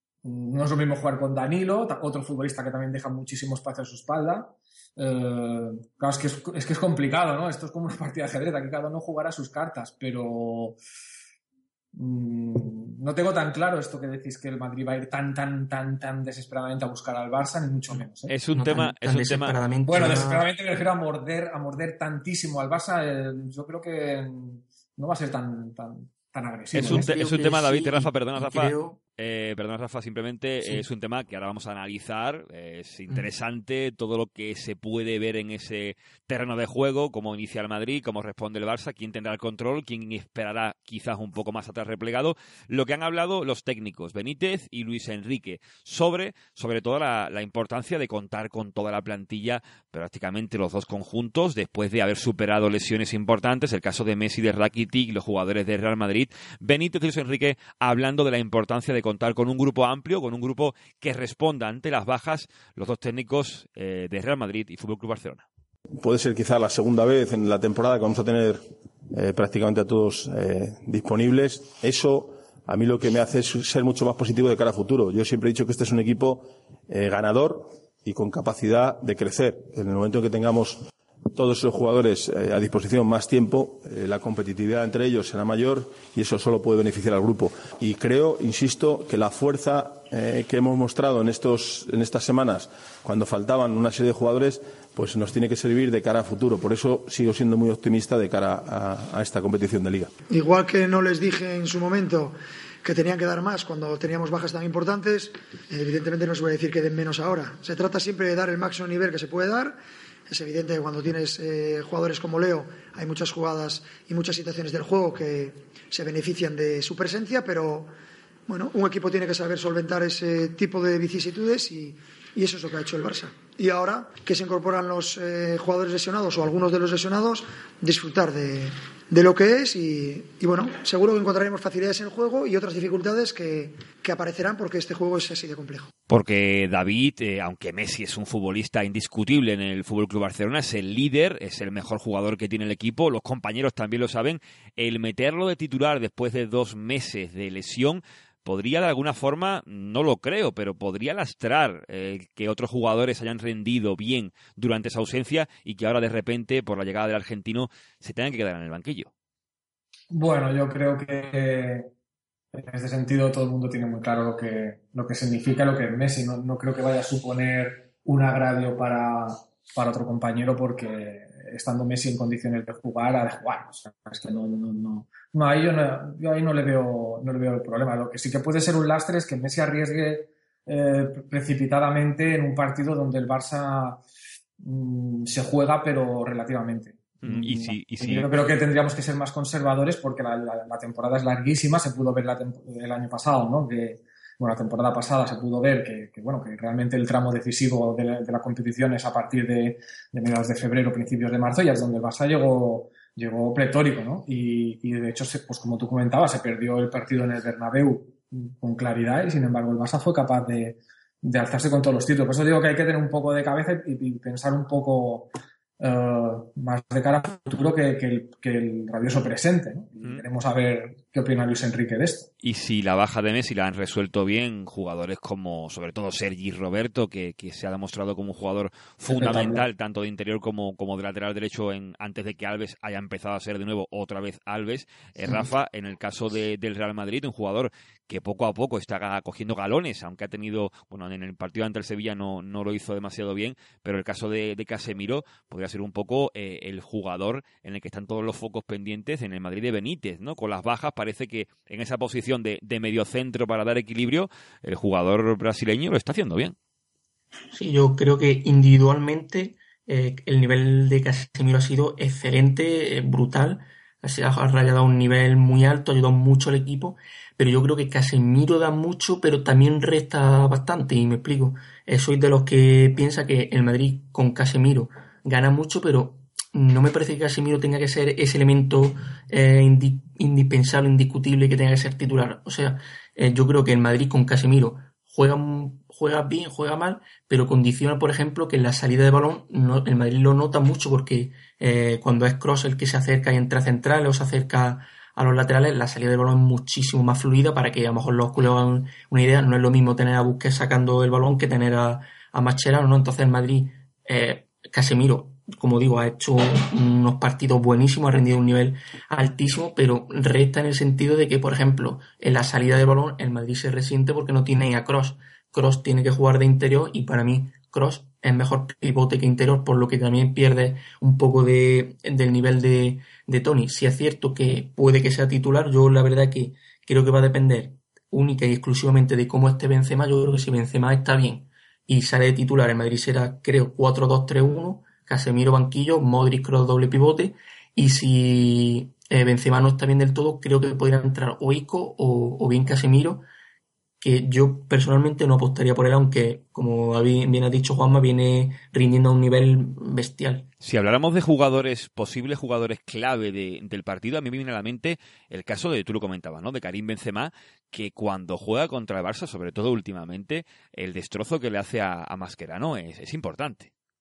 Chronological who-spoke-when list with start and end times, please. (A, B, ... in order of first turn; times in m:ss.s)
0:00.2-0:10.8 A
0:11.9-0:18.3 A
0:18.3-0:19.6 B
0:18.5-0:20.5 C
0:19.8-0:27.1 A
0:26.7-1:05.4 B
0:26.8-0:29.0 C
1:06.0-1:20.8 D
1:21.3-1:40.1 D
1:40.3-1:49.8 E
1:50.3-1:57.9 E
1:58.5-2:15.9 E
2:16.1-2:39.1 B
2:40.1-2:41.9 A
2:42.5-3:04.0 A
3:04.6-3:42.3 A
3:07.2-3:08.3 B
3:42.4-4:16.5 B
3:49.1-3:49.6 A
4:17.5-5:43.2 C
5:44.0-5:50.5 C
5:50.6-6:03.7 B